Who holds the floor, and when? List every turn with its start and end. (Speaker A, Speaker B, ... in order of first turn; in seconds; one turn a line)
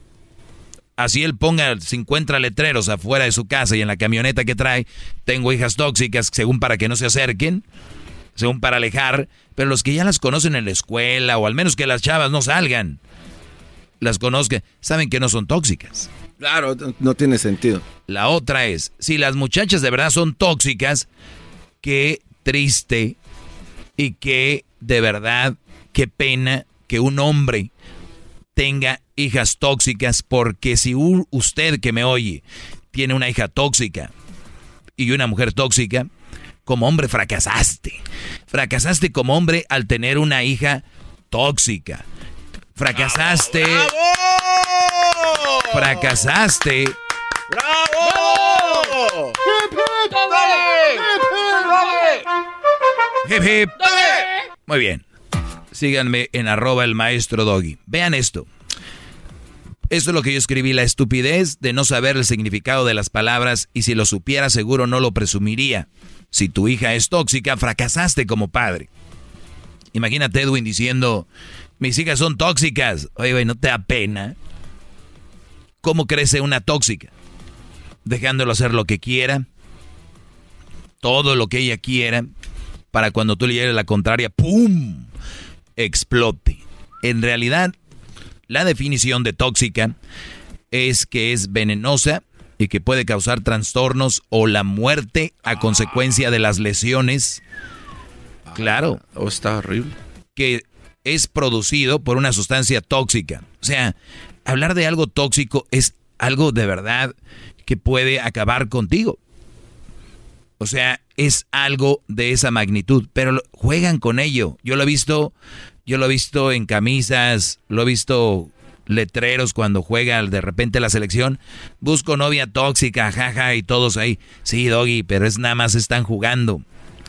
Speaker A: 1.0-7.6
Speaker A: 8.3-13.0
Speaker A: 14.0-16.1
Speaker B: 16.4-17.8
Speaker A: 18.1-21.1
Speaker A: 21.8-23.1
Speaker A: 24.0-27.7
Speaker A: 28.5-34.1
Speaker A: 35.0-36.1
Speaker A: 36.6-42.0
Speaker A: 42.8-43.9
Speaker B: 42.9-46.1
Speaker A: 45.7-47.0
Speaker B: 47.5-49.4
Speaker B: 50.1-52.2
Speaker A: 53.2-55.0
Speaker B: 53.8-54.3
Speaker A: 55.7-58.5
Speaker A: 59.9-68.9
Speaker A: 69.9-71.3
Speaker A: 71.8-74.3
Speaker A: 75.8-77.1
Speaker A: 78.0-79.5
Speaker A: 81.0-82.3
Speaker A: 82.9-85.1
Speaker A: 85.8-87.7
Speaker A: 88.5-89.9
Speaker A: 90.7-97.4
Speaker B: 95.5-96.0
Speaker B: 98.5-99.9
Speaker A: 98.5-99.0
Speaker A: 100.3-109.2
Speaker A: 110.6-115.3
Speaker A: 115.8-126.6